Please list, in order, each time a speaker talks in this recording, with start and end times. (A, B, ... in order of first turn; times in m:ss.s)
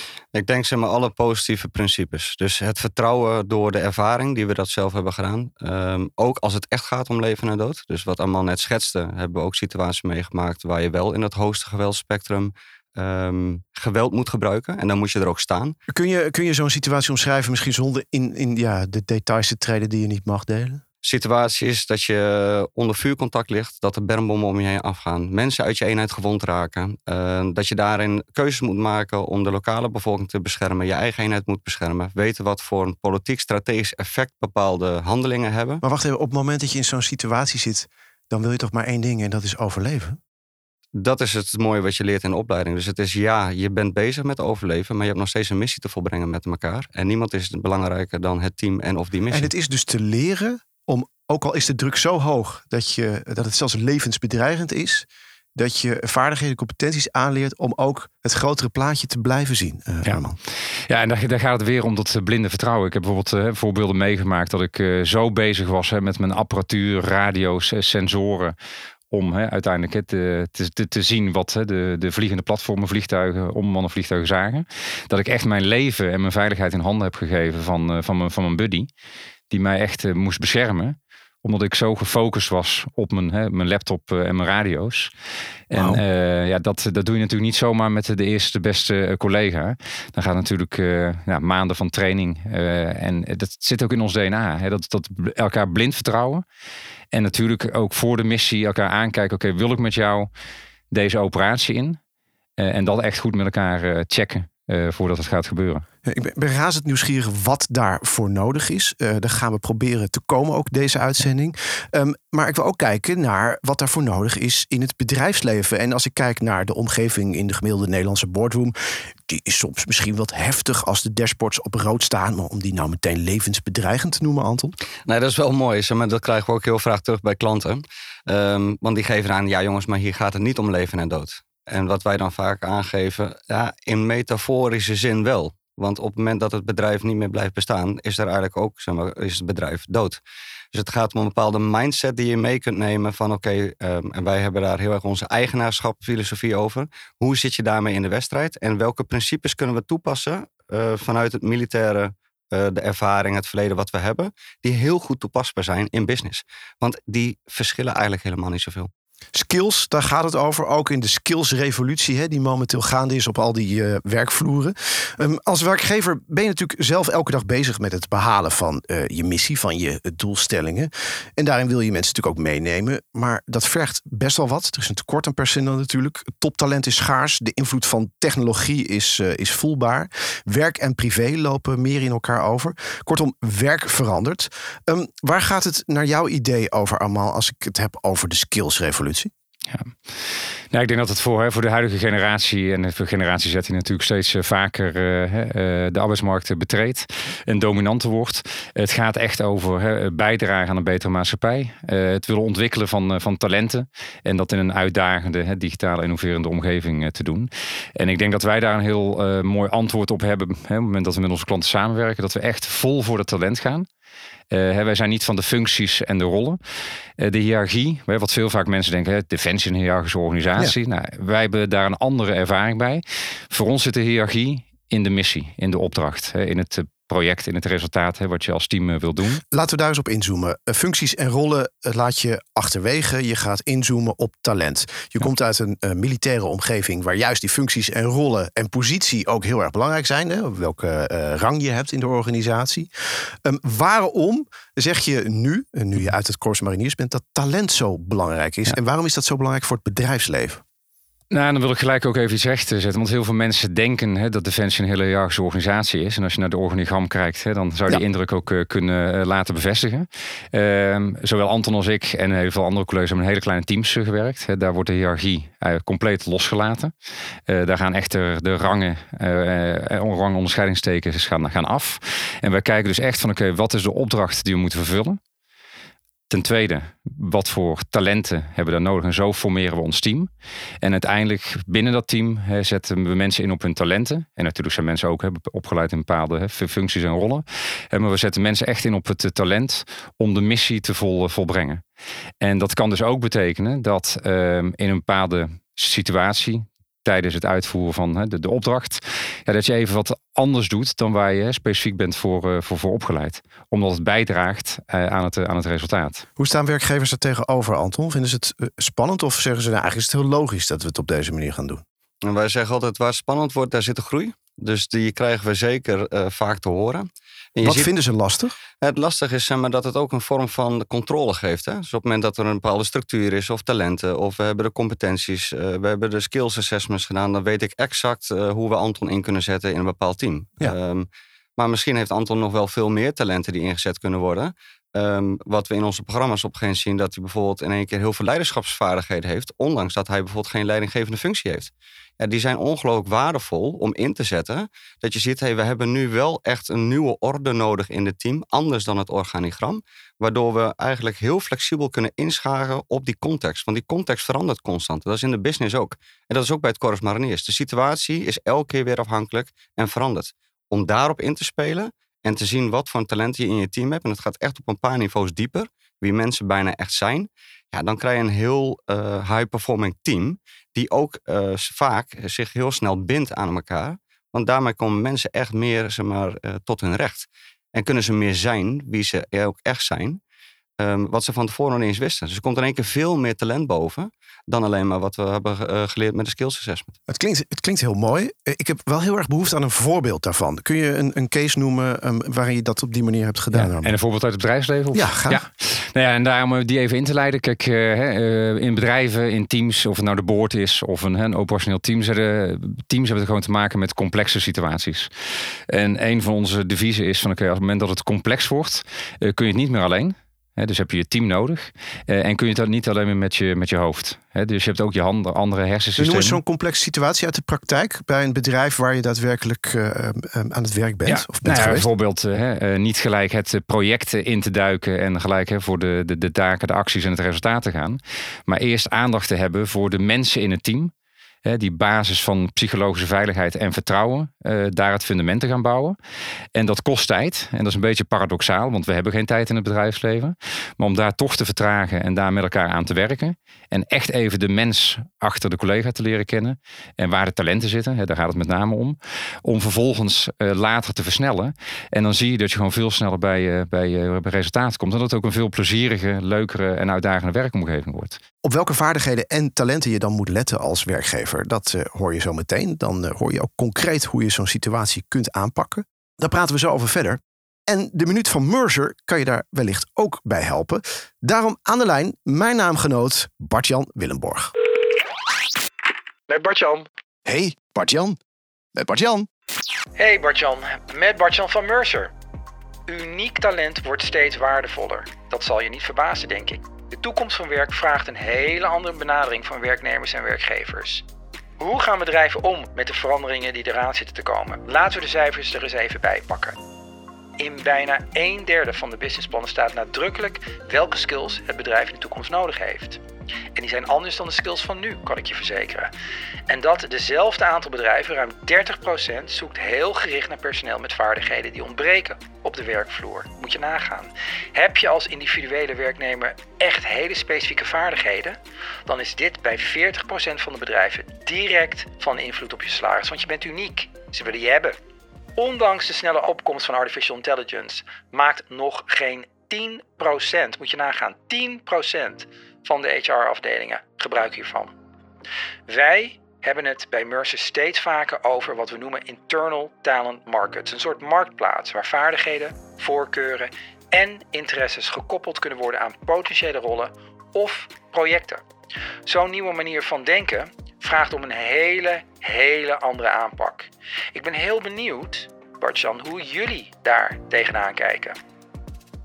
0:00.3-0:15.8 A
0:15.9-0:20.8 B
0:21.0-0:35.8 A
0:35.8-0:40.2 B
0:41.0-0:49.5 A
0:49.3-1:00.4 B
1:00.9-1:08.6 C
1:09.1-1:18.9 C
1:19.5-1:25.1 C
1:25.7-1:36.4 C
1:25.7-1:26.0 B
1:37.1-1:40.3 C
1:40.9-1:42.0 C
1:42.6-1:45.8 C
1:46.0-2:04.8 B
2:05.1-2:20.2 A
2:20.7-2:38.9 A
2:39.3-3:09.3 B
3:09.7-3:10.0 C
3:10.7-3:33.9 C
3:34.5-3:36.6 C
3:37.2-3:49.4 C
3:49.5-4:02.9 B
4:03.4-4:10.6 B
4:11.3-4:26.9 C
4:27.5-4:35.2 C
4:36.3-4:51.8 C
4:52.4-5:06.2 C
5:06.4-5:11.8 B
5:12.2-5:17.9 A
5:17.6-5:18.6 B
5:18.8-6:20.2 A
6:20.8-6:26.9 A
6:27.1-6:33.9 B
6:33.5-6:45.1 C
6:34.9-6:35.4 B
6:45.7-6:56.4 C
6:56.0-7:01.9 B
7:01.1-7:10.9 C
7:11.4-7:16.0 C
7:16.6-7:38.2 C
7:38.4-7:54.5 B
7:56.3-7:56.9 D
7:57.3-7:58.2 B
7:58.8-7:59.3 B
8:00.0-8:02.1 D
8:02.9-8:11.0 D
8:11.6-8:16.6 D
8:17.4-8:23.0 D
8:23.6-8:25.9 D
8:26.5-8:44.8 D
8:45.4-8:54.7 D
8:55.7-9:08.4 D
9:09.1-9:18.2 D